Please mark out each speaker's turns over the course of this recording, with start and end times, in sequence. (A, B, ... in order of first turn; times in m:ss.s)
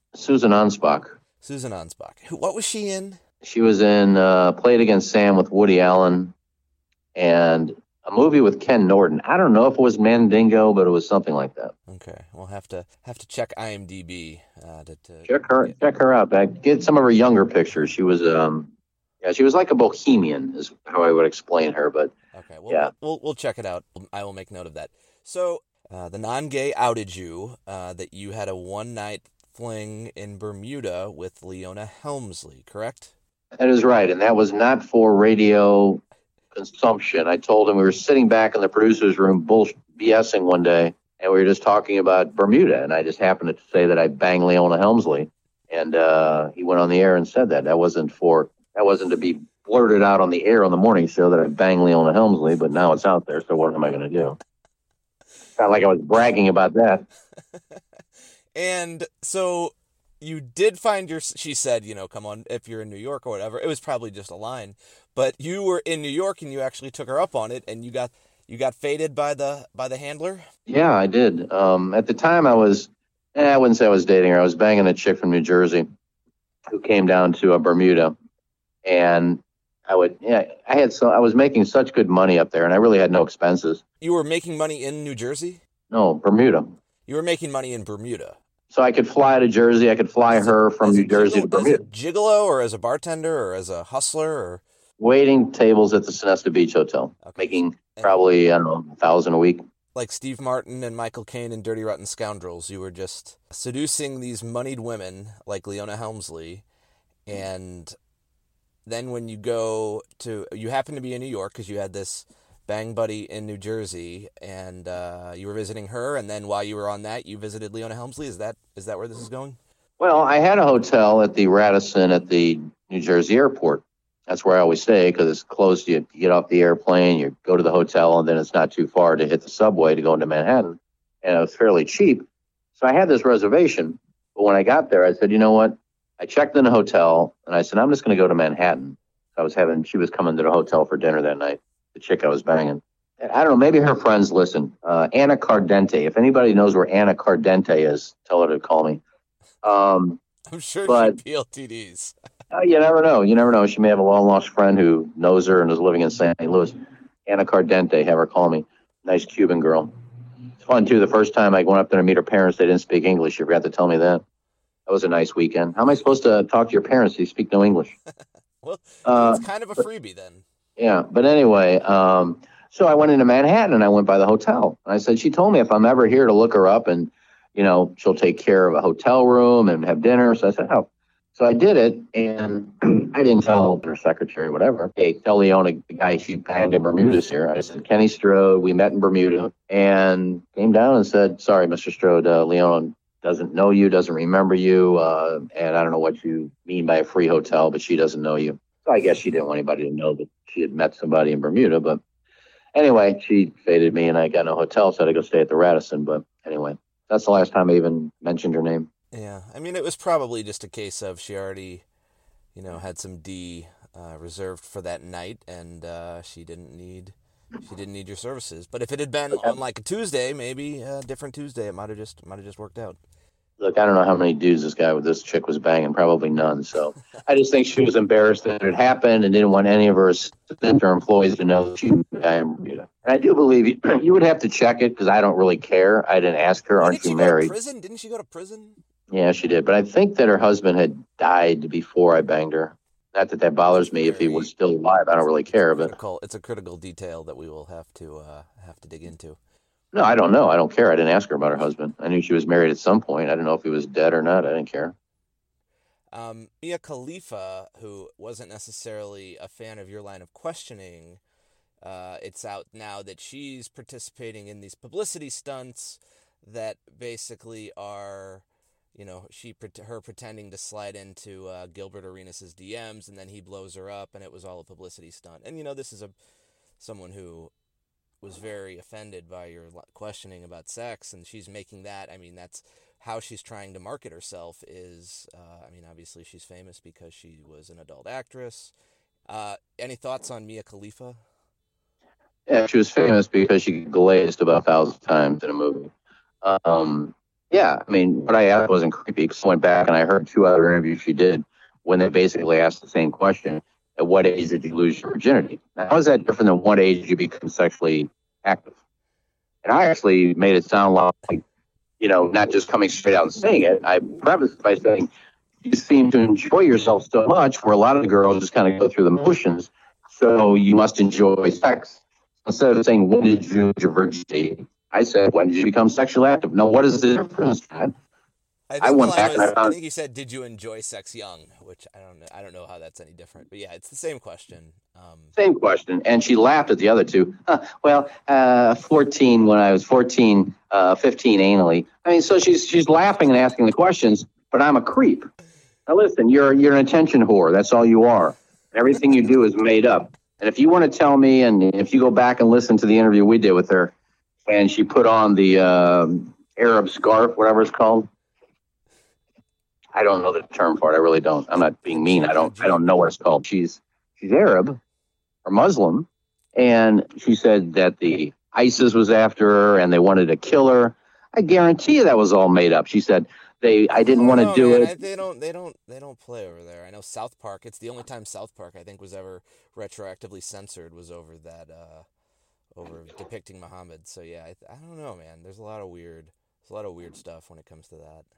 0:00.1-0:01.2 A
0:01.4-0:03.2 B
0:03.4-0:06.3 A
0:07.2-0:11.7 A
0:11.9-0:15.8 B
0:15.3-0:18.7 A
0:19.2-0:22.1 A
0:22.3-0:33.1 B
0:33.6-0:36.0 A
0:36.5-0:54.4 A
0:55.6-0:57.0 A
0:58.6-1:10.5 B
1:10.7-1:15.9 A
1:16.7-1:18.2 A
1:18.8-1:23.8 A
1:24.0-1:25.6 B
1:25.9-1:26.7 A
1:27.1-1:28.4 B
1:28.7-1:31.8 A
1:30.3-1:34.6 B
1:35.0-1:39.6 A
1:37.2-1:38.2 B
1:40.0-1:46.6 B
1:47.3-1:48.0 B
1:48.9-1:59.6 B
2:00.0-2:12.3 A
2:12.8-2:29.0 A
2:29.6-2:30.2 A
2:30.5-2:32.1 B
2:30.9-2:31.2 A
2:32.5-2:39.9 A
2:40.6-2:44.2 A
2:44.9-2:47.9 A
2:48.6-2:50.4 B
2:49.1-2:49.4 A
2:50.8-3:22.0 A
3:22.8-3:28.9 A
3:29.1-3:31.8 B
3:32.6-3:43.0 B
3:43.6-3:57.5 A
3:56.8-3:58.8 B
3:59.1-4:05.9 A
4:03.8-4:04.5 B
4:05.6-4:09.4 B
4:09.9-4:14.9 A
4:16.1-4:21.2 B
4:21.8-4:28.4 B
4:29.0-4:36.1 B
4:36.8-4:37.5 B
4:38.2-4:48.7 B
4:49.3-4:51.2 B
4:52.5-4:55.9 A
4:56.4-5:08.7 A
5:09.6-5:11.4 A
5:12.0-5:15.1 A
5:15.6-5:27.9 A
5:28.7-5:35.3 B
5:28.8-5:29.8 A
5:35.4-5:45.3 A
5:45.9-5:53.9 A
5:54.5-5:58.1 A
6:00.0-6:04.8 A
6:01.9-6:02.8 B
6:05.4-6:14.9 A
6:14.1-6:22.1 B
6:22.7-6:28.3 B